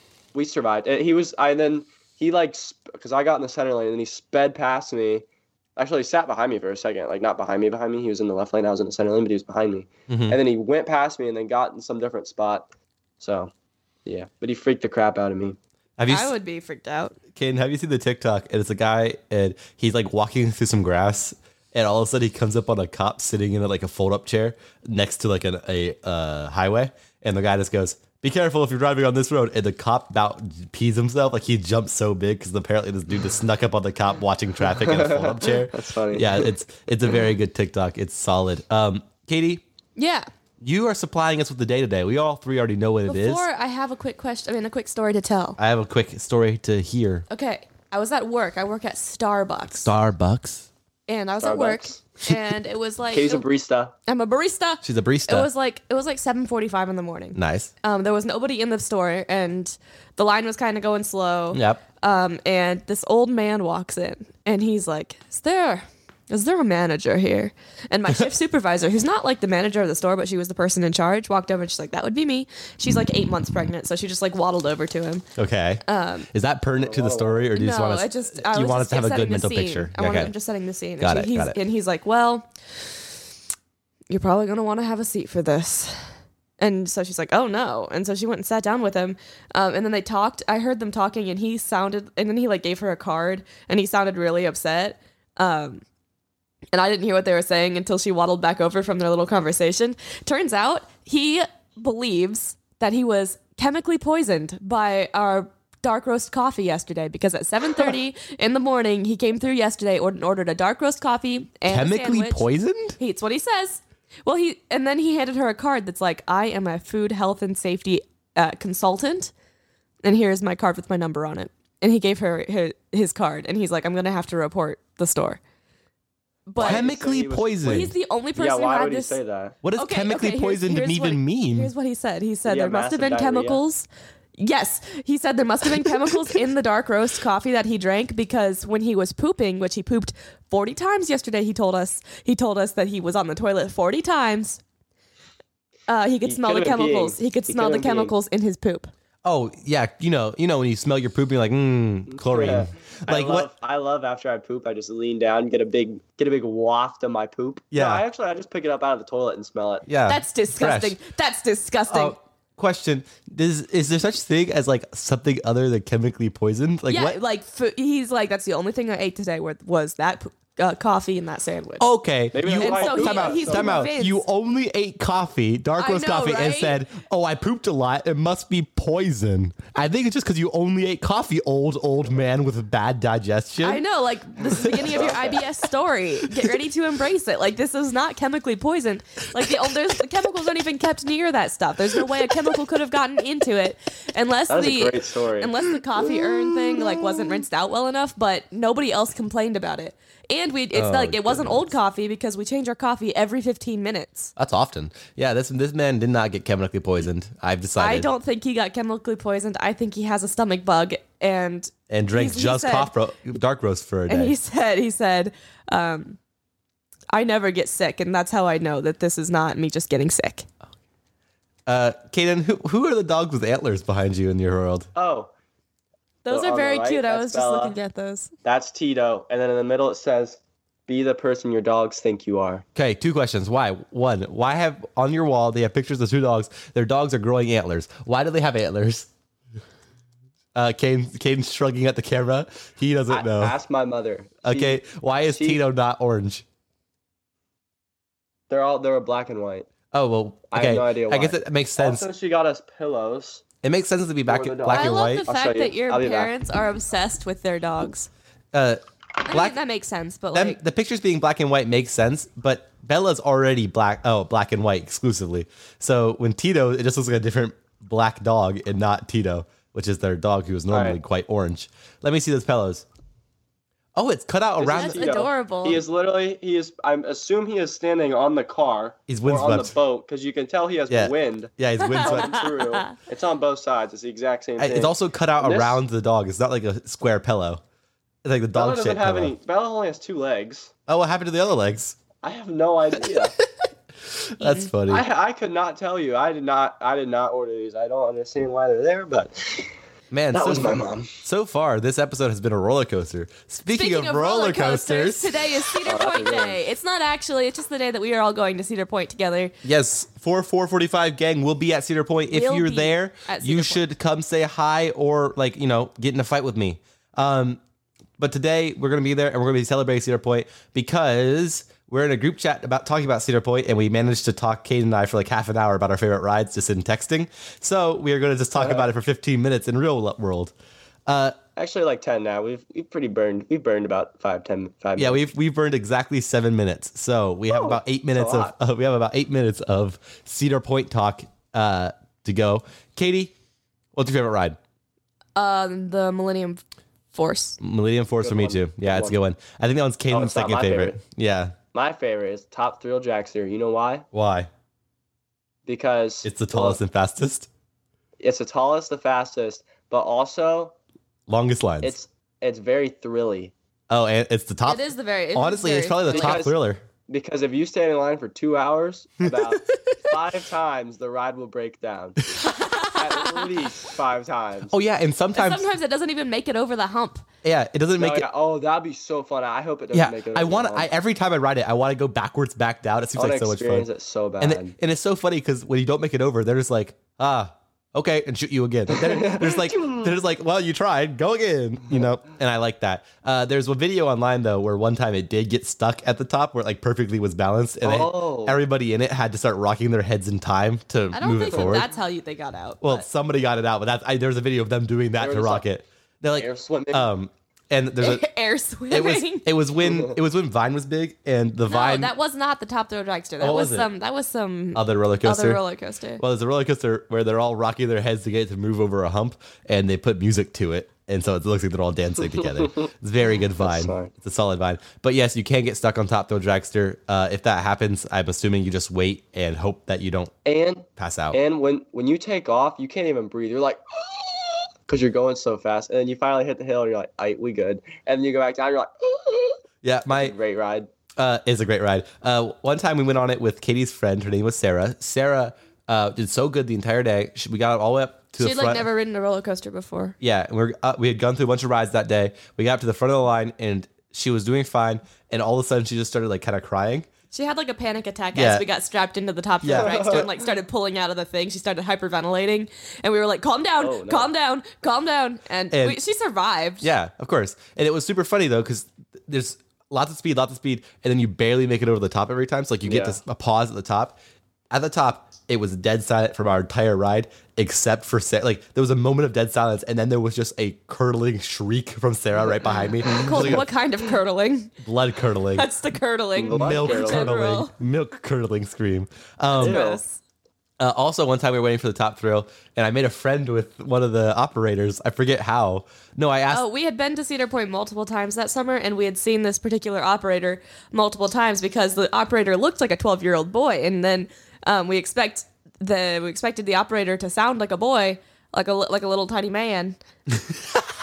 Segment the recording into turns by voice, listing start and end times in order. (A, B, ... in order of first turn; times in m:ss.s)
0:00.3-0:05.2 A
0:05.8-0:12.7 A
0:10.1-0:10.4 B
0:13.2-0:13.5 A
0:14.0-0:15.6 A
0:16.0-0:16.3 B
0:16.1-0:17.2 C
0:17.4-0:39.6 B
0:34.8-0:36.5 A
0:40.0-0:40.3 C
0:40.6-0:43.5 B
0:43.1-0:45.6 C
0:45.6-0:47.3 B
0:47.3-0:49.9 C
0:49.8-0:50.7 B
0:51.1-0:53.4 C
0:51.4-0:52.0 A
0:53.1-0:54.0 A
0:54.1-1:15.3 C
0:54.8-0:55.5 B
0:57.4-0:57.7 B
1:01.5-1:01.8 B
1:15.4-1:15.8 B
1:15.9-1:16.3 C
1:16.3-1:20.3 B
1:16.8-1:17.5 A
1:17.6-1:22.5 C
1:21.0-1:21.6 B
1:24.1-1:26.1 C
1:26.6-1:35.8 C
1:36.7-1:52.5 C
1:51.7-1:53.0 B
1:53.0-1:59.3 C
2:00.0-2:05.4 C
2:06.5-2:06.9 C
2:06.6-2:09.6 A
2:06.6-2:07.9 B
2:07.6-2:09.2 C
2:09.6-2:11.7 B
2:09.8-2:24.6 C
2:12.4-2:13.6 A
2:25.9-2:28.9 C
2:26.2-2:28.1 A
2:29.2-2:33.5 B
2:32.1-2:39.9 A
2:37.7-2:38.0 B
2:39.9-2:41.0 B
2:40.1-2:42.2 C
2:41.9-2:47.2 B
2:46.9-2:51.9 C
2:51.8-3:03.8 B
2:52.3-2:53.9 A
2:52.5-2:54.2 C
2:55.8-2:56.8 C
3:03.6-3:24.3 C
3:04.6-3:05.0 B
3:04.9-3:05.4 A
3:14.5-3:15.5 A
3:20.7-3:21.7 B
3:24.4-3:28.1 B
3:27.8-3:32.9 C
3:31.9-3:34.4 B
3:34.1-3:36.2 C
3:37.1-3:40.5 C
3:41.7-3:44.9 B
3:45.0-3:45.3 A
3:46.2-3:48.3 C
3:46.3-3:47.8 A
3:48.4-3:52.6 A
3:52.8-3:59.1 B
4:00.6-4:03.6 B
4:03.1-4:05.6 A
4:04.4-4:06.4 B
4:08.5-4:09.7 A
4:09.9-4:12.1 B
4:10.5-4:13.4 A
4:13.6-4:15.3 B
4:14.3-4:16.3 A
4:14.7-4:18.1 C
4:18.5-4:19.6 B
4:19.3-4:20.6 C
4:20.3-4:32.8 B
4:30.7-4:31.0 A
4:34.0-4:35.2 B
4:34.6-4:45.8 A
4:34.7-4:35.8 C
4:39.1-4:39.8 B
4:40.9-4:42.5 B
4:41.8-4:42.9 C
4:44.6-4:47.6 B
4:48.2-4:49.4 B
4:48.5-4:50.7 A
4:50.9-4:52.0 B
4:52.2-4:53.4 A
4:53.0-4:53.3 B
4:54.4-4:55.0 B
4:54.4-4:54.7 C
4:54.9-4:59.7 A
5:00.1-5:05.5 B
5:00.3-5:01.1 A
5:03.8-5:09.5 C
5:05.8-5:06.6 A
5:09.6-5:17.6 B
5:12.3-5:13.9 C
5:18.2-5:30.5 B
5:28.6-5:28.9 A
5:31.1-5:31.4 B
5:31.6-5:35.2 A
5:35.0-5:43.3 B
5:37.5-5:38.5 A
5:44.0-5:44.6 B
5:45.4-5:46.6 C
5:47.1-5:47.6 C
5:47.6-5:51.6 B
5:48.2-5:49.2 A
5:50.1-5:51.0 A
5:51.7-5:54.1 A
5:54.1-5:54.5 B
5:55.7-5:56.8 A
5:56.2-5:57.5 B
5:58.2-6:00.8 A
6:01.3-6:02.0 B
6:01.8-6:03.5 A
6:03.9-6:06.8 B
6:04.7-6:06.4 C
6:06.1-6:06.6 A
6:07.1-6:12.2 A
6:09.3-6:09.8 B
6:12.8-6:14.7 A
6:14.7-6:15.7 B
6:15.3-6:17.2 C
6:17.4-6:18.3 B
6:18.0-6:20.9 A
6:19.9-6:23.9 B
6:23.2-6:24.7 A
6:24.4-6:41.9 B
6:28.9-6:30.1 A
6:37.8-6:38.6 A
6:41.1-6:43.1 C
6:42.8-6:48.3 B
6:45.2-6:45.7 A
6:46.3-6:47.1 A
6:48.0-6:49.5 C
6:48.9-6:52.1 B
6:49.8-6:50.1 A
6:51.7-6:56.2 C
6:53.4-6:53.9 B
6:54.8-6:55.6 B
6:56.2-7:10.3 B
7:03.6-7:04.1 A
7:10.4-7:20.9 A
7:11.0-7:11.4 B
7:19.8-7:20.4 B
7:21.2-7:28.9 B
7:28.4-7:30.2 C
7:30.2-7:37.1 B
7:37.3-7:46.9 C
7:38.3-7:38.7 B
7:39.6-7:40.3 B
7:39.7-7:40.3 A
7:43.8-7:44.3 A
7:45.7-7:46.0 B
7:46.8-7:54.2 B
7:52.8-7:53.2 A
7:54.7-8:03.7 B
8:03.1-8:03.6 A
8:03.1-8:04.7 C
8:04.8-8:05.7 B
8:05.6-8:07.7 C
8:06.4-8:07.3 A
8:06.5-8:09.8 B
8:09.5-8:10.2 C
8:09.5-8:10.0 A
8:10.8-8:16.7 B
8:16.5-8:30.0 C
8:30.5-8:30.8 B